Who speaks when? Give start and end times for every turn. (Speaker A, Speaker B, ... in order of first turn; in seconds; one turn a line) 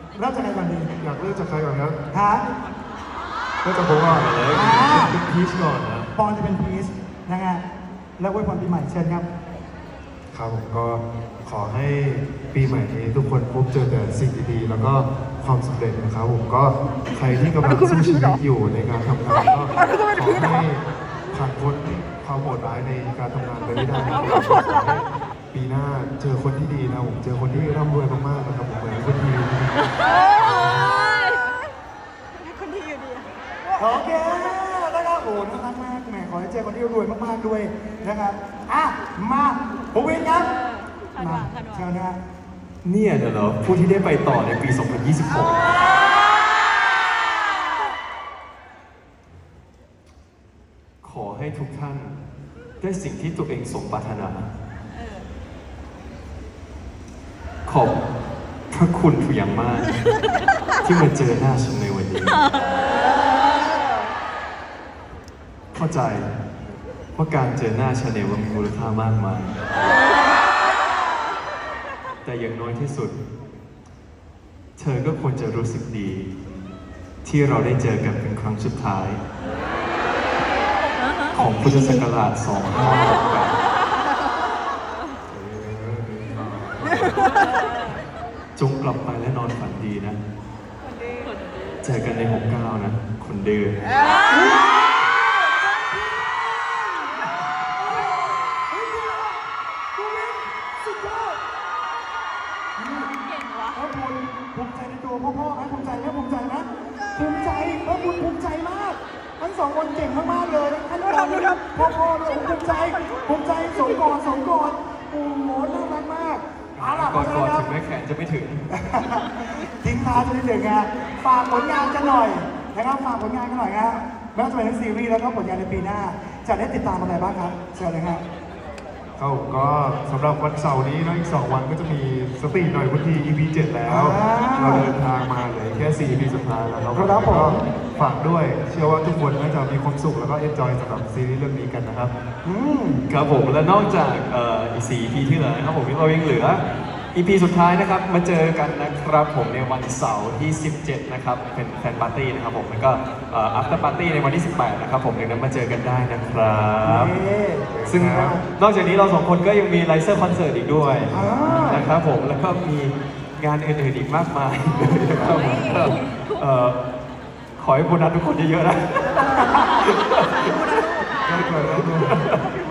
Speaker A: 0.2-0.9
Speaker B: 1.0-2.0
Speaker A: 2.1-2.4
Speaker B: 3.6-4.3
Speaker C: 4.0-6.1
Speaker A: 4.5-5.2
Speaker A: 6.2-7.6
Speaker A: 8.2-9.3
Speaker B: 10.3-30.9
Speaker D: 32.5-33.3
Speaker A: 33.8-40.5
Speaker A: 41.2-42.2
Speaker C: 42.8-45.8
Speaker C: 51.0-52.2
Speaker C: 52.8-54.5
Speaker C: 57.7-58.0
Speaker C: 58.7-60.0
Speaker C: 60.8-62.4
Speaker C: 65.7-66.3
Speaker C: 67.2-69.6
Speaker C: 72.2-73.2
Speaker C: 74.8-76.3
Speaker C: 77.2-79.2
Speaker C: 81.3-83.6
Speaker B: 85.3-87.2
Speaker C: 88.6-90.2
Speaker C: 91.8-93.8
Speaker A: 94.3-99.4
Speaker A: 100.0-101.4
Speaker A: 102.8-103.1
Speaker D: 103.3-103.6
Speaker A: 103.7-117.7
Speaker C: 116.8-118.7
Speaker A: 118.7-128.2
Speaker B: 129.2-135.9
Speaker A: 133.8-134.9
Speaker C: 135.8-137.4
Speaker A: 136.9-137.6
Speaker B: 137.1-142.1
Speaker A: 142.4-143.1
Speaker C: 143.1-146.6
Speaker C: 147.2-157.2
Speaker A: 156.8-157.7
Speaker B: 157.7-158.4
Speaker C: 157.9-166.8
Speaker A: 161.1-161.9
Speaker A: 164.9-165.4
Speaker C: 167.6-170.8
Speaker D: 170.5-171.3
Speaker B: 171.2-172.2
Speaker C: 171.5-172.5